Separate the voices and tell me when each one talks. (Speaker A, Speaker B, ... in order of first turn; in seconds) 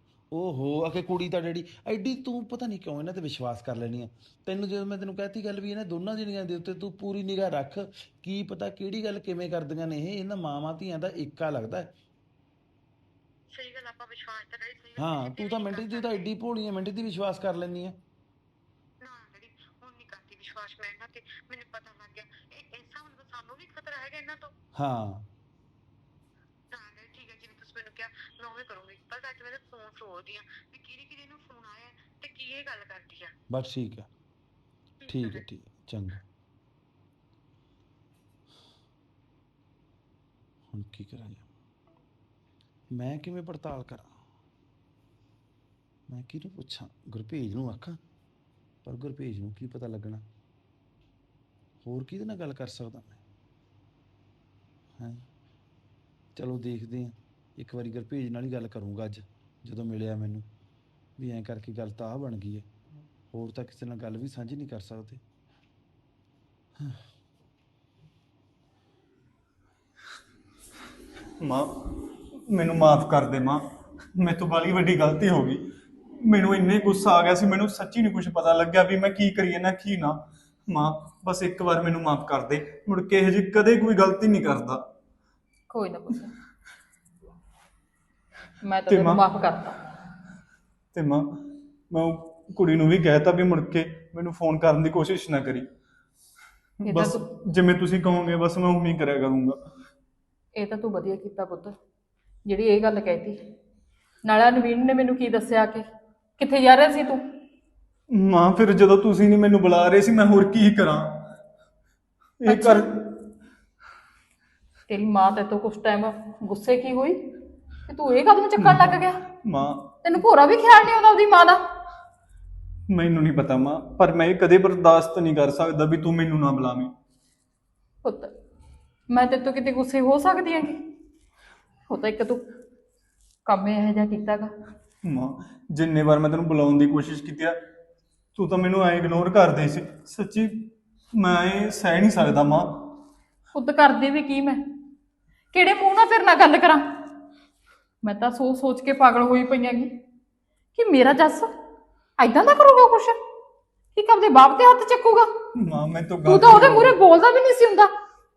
Speaker A: 0.3-11.9, 15.0-18.0, 24.8-25.3, 33.5-34.1, 35.1-36.2, 40.7-41.4, 42.9-44.2, 46.1-48.0, 48.8-50.2, 51.8-53.2, 55.0-55.2, 56.4-60.5, 61.2-62.7, 63.3-65.2
Speaker B: 13.5-16.3, 19.0-24.5, 26.7-33.3, 35.0-35.4
Speaker C: 71.4-71.7, 72.5-73.6, 74.2-75.6, 76.2-84.8, 88.9-89.2, 90.9-91.4, 91.9-95.7, 96.9-99.6, 108.1-111.3, 112.4-112.8, 119.4-119.9, 122.9-126.9, 135.0-137.6, 138.3-142.9, 155.6-156.9
Speaker D: 85.7-86.3, 88.6-89.8, 96.8-97.2, 100.5-101.7, 102.4-103.4, 104.2-105.8, 106.4-107.2, 112.5-112.8, 114.9-117.3, 117.9-119.2, 120.0-121.6, 128.0-128.3, 129.1-130.8, 131.9-132.4, 133.4-134.5, 143.5-144.6, 145.5-147.0, 148.0-149.9, 150.7-151.5, 152.2-153.2, 153.9-155.3, 156.2-157.9